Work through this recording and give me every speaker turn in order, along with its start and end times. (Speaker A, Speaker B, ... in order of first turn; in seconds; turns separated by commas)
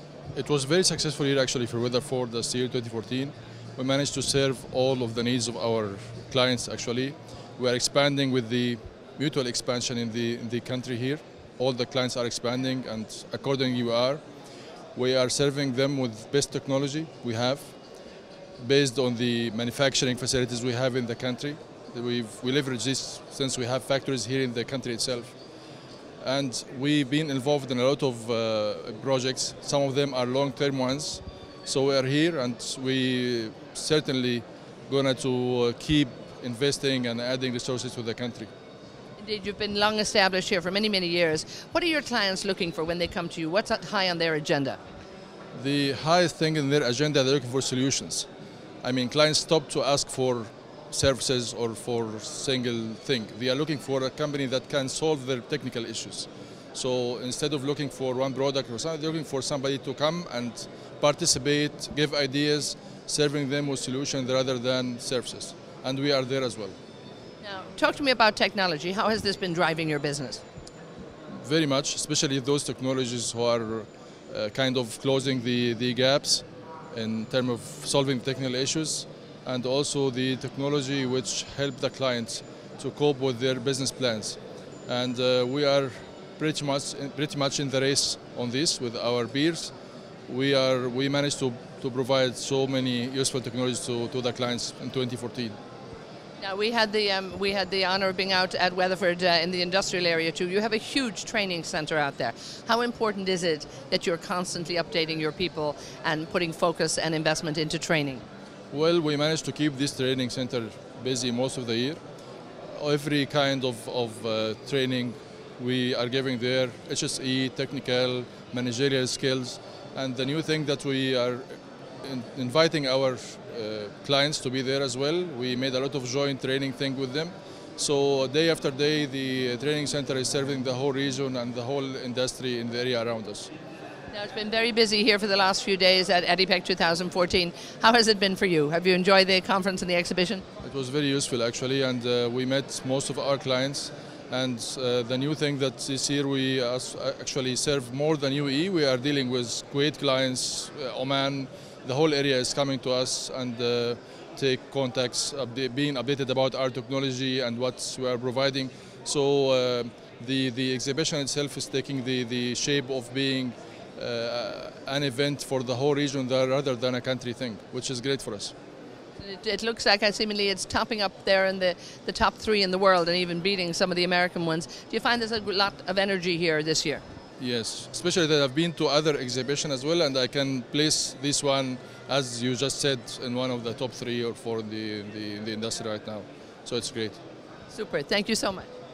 Speaker A: 0.3-14.2, Speaker A: 14.9-17.7, Speaker A: 18.6-25.3, Speaker A: 26.2-38.5, Speaker B: 39.2-44.8, Speaker A: 45.5-48.3, Speaker A: 48.8-66.8, Speaker B: 67.4-70.4, Speaker A: 71.4-89.7, Speaker A: 90.3-95.5, Speaker B: 96.4-108.2, Speaker A: 108.7-112.0, Speaker A: 112.7-133.5, Speaker B: 134.1-140.4, Speaker A: 140.6-168.5, Speaker B: 169.2-177.0, Speaker A: 177.4-187.2, Speaker B: 187.7-188.7